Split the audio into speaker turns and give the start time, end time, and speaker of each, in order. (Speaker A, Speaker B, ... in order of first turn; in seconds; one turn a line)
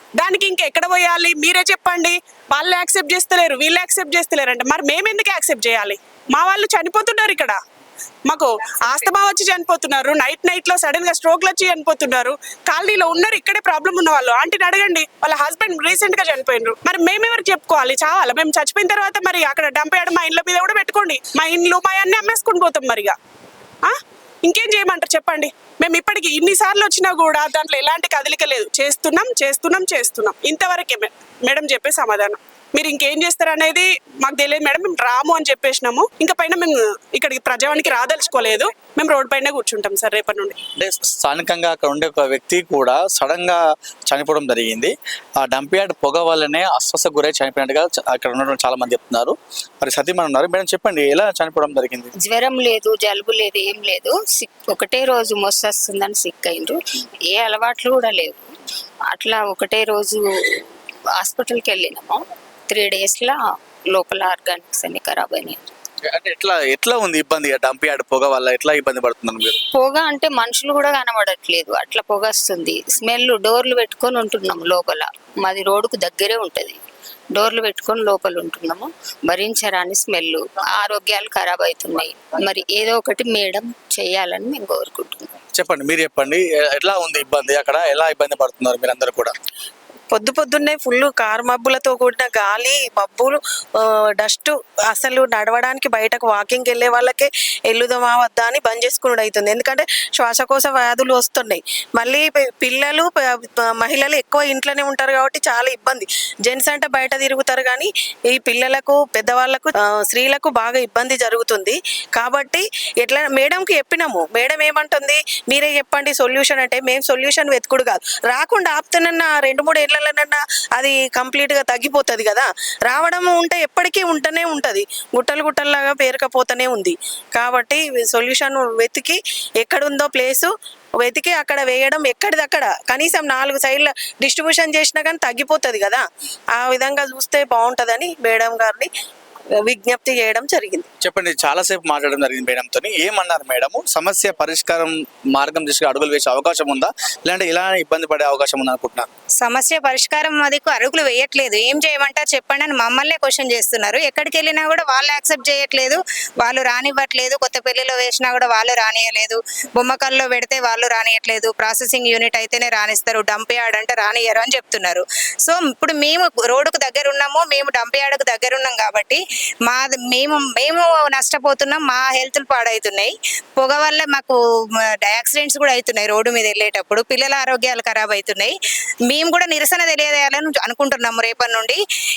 Speaker A: 0.2-7.6
Speaker A: 8.3-23.2
Speaker A: 23.8-40.5
Speaker B: 40.8-52.1
Speaker C: 52.2-56.8
Speaker C: 57.3-58.5
Speaker C: 59.1-60.2
Speaker C: 61.2-63.4
Speaker C: 63.9-65.7
Speaker B: 66.1-69.6
Speaker C: 69.7-76.8
Speaker C: 77.3-85.3
Speaker B: 85.5-89.3
Speaker D: 90.1-103.2
Speaker D: 103.8-130.5
Speaker D: 131.0-136.0
Speaker D: 136.6-138.9
Speaker D: 139.6-140.9
Speaker B: 141.0-149.1
Speaker E: 149.4-174.4
Speaker E: 174.9-178.5
Speaker E: 179.1-181.8